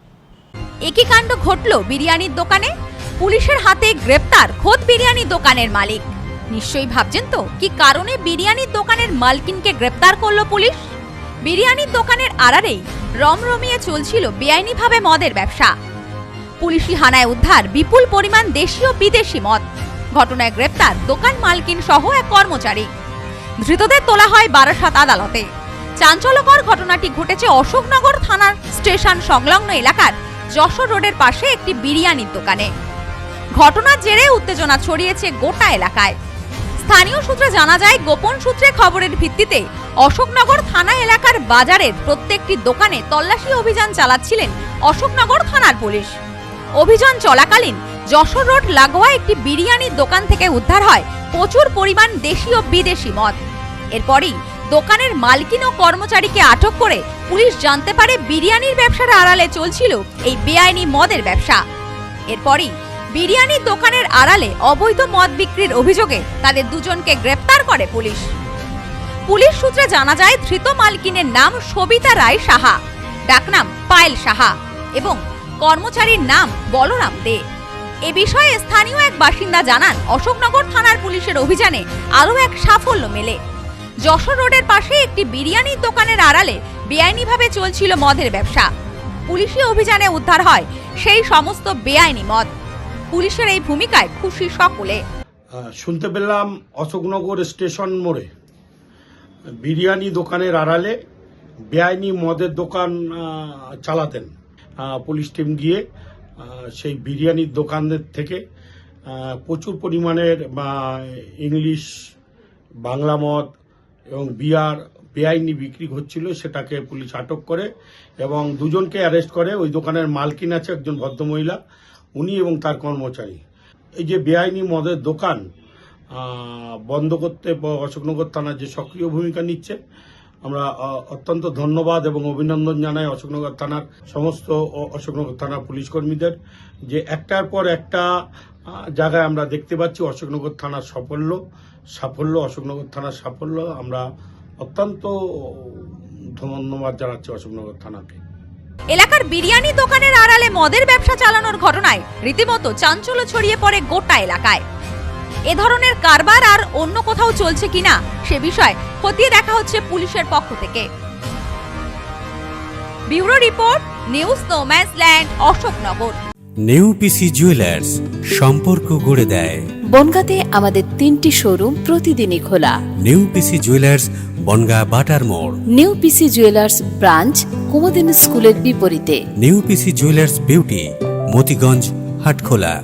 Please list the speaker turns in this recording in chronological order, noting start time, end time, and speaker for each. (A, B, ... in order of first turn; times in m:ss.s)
0:00.8-0:10.8 A
0:11.4-0:15.7 A
0:16.6-0:22.9 A
0:23.6-0:25.5 A
0:26.0-0:32.7 A
0:33.6-0:36.2 A
0:36.8-0:46.1 A
0:46.8-0:53.4 A
0:53.9-1:01.6 A
1:02.3-1:08.3 A
1:09.3-1:17.4 A
1:18.1-1:23.4 A
1:24.0-1:28.7 A
1:29.3-1:32.5 A
1:33.1-1:35.0 A
1:35.6-1:38.3 B
1:39.6-1:41.0 B
1:41.7-1:44.3 B
1:44.8-1:45.8 B
1:46.4-1:48.4 B
1:49.1-1:51.9 B
1:52.8-1:53.5 B
1:54.1-1:57.7 B
1:58.2-2:01.6 B
2:02.2-2:03.4 B
2:04.0-2:05.4 B
2:06.2-2:09.8 B
2:10.4-2:16.4 B
2:16.9-2:18.1 B
2:18.7-2:21.4 B
2:22.0-2:24.0 B
2:24.6-2:28.2 B
2:28.9-2:34.6 A
2:35.5-2:40.9 A
2:43.1-2:46.2 A
2:46.7-2:49.6 C
2:49.9-2:52.8 D
2:53.0-2:55.6 C
2:55.7-2:59.2 D
2:59.4-3:02.8 C